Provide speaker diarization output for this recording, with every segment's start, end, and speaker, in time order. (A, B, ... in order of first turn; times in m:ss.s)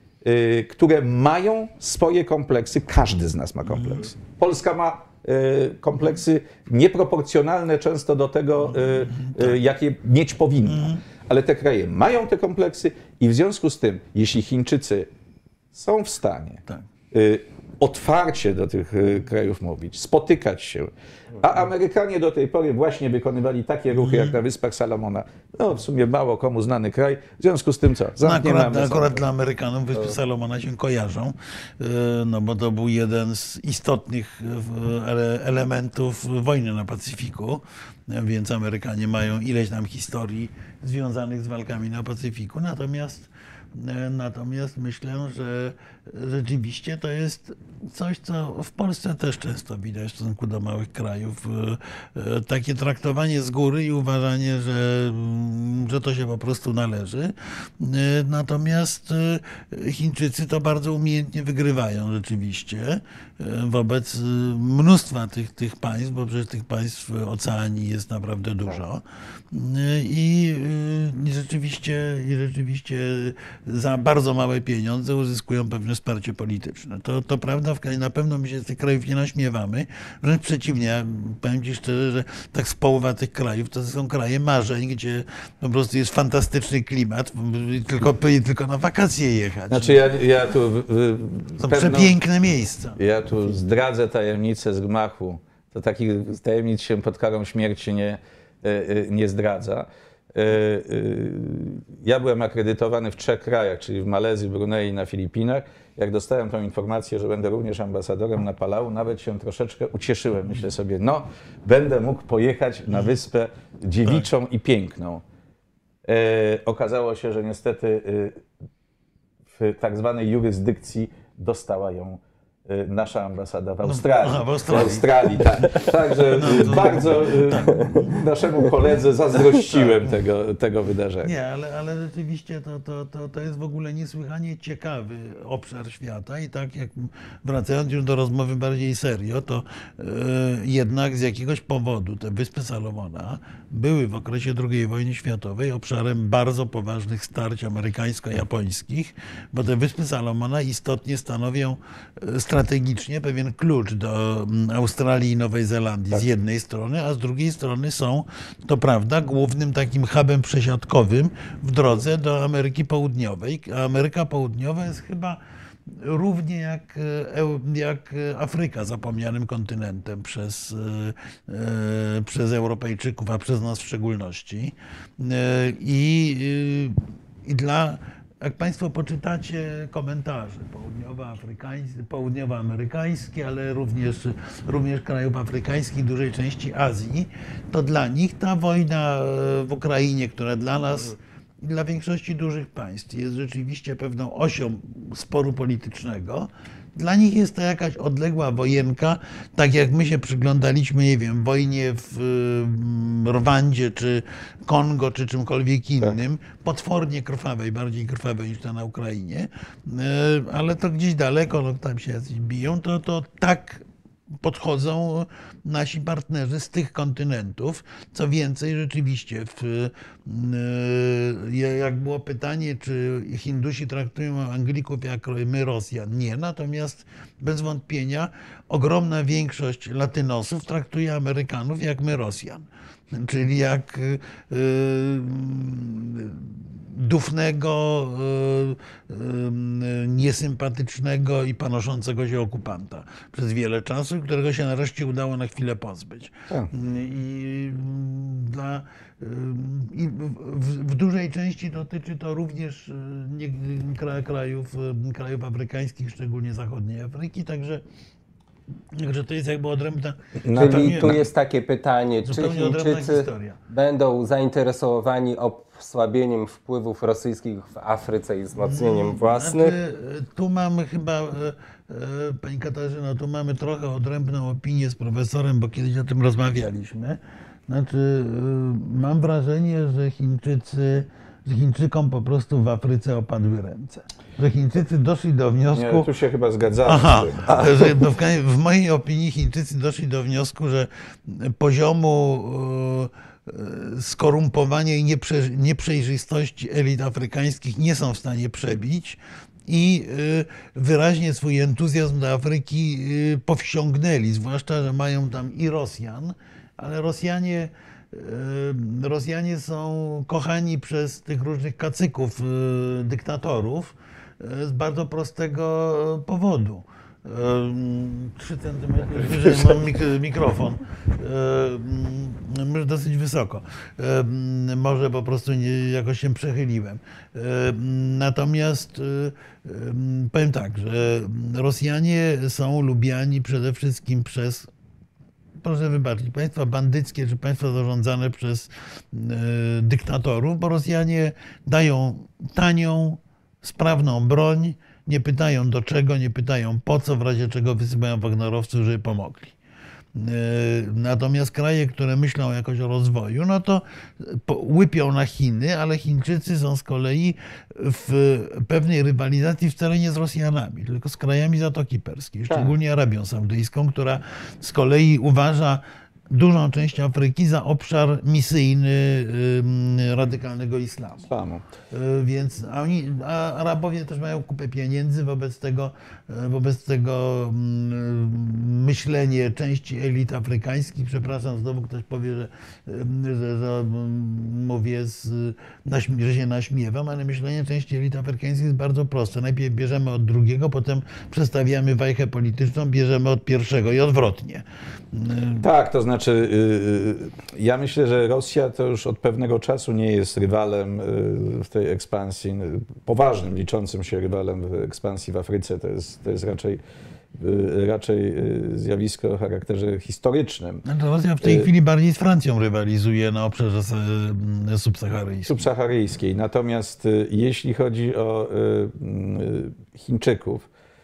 0:00.2-0:15.1 A
0:09.1-0:09.5 B
0:10.7-0:11.0 B
0:15.7-0:29.2 A
0:24.0-0:24.4 B
0:28.2-1:30.0 B
1:29.7-1:32.2 A
1:31.6-1:33.0 B
1:33.0-1:55.2 A
1:56.0-1:58.4 A
1:59.5-2:11.3 A
2:03.8-2:05.7 B
2:06.3-2:08.2 B
2:07.7-2:08.1 C
2:11.2-2:45.4 B
2:46.0-3:33.8 B
3:34.4-4:17.8 B
4:18.9-4:21.2 B
4:20.4-4:21.2 A
4:20.5-4:29.8 C
4:22.2-4:23.6 B
4:28.6-4:46.1 B
4:45.7-4:47.9 A
4:46.8-5:34.7 B
5:35.6-5:49.6 B
5:50.1-6:11.3 B
6:02.5-6:02.8 A
6:11.3-6:11.6 A
6:11.9-6:35.6 B
6:35.6-6:46.8 A
6:47.3-6:50.8 A
6:50.8-6:55.6 B
6:51.4-6:51.7 A
6:55.4-7:00.7 A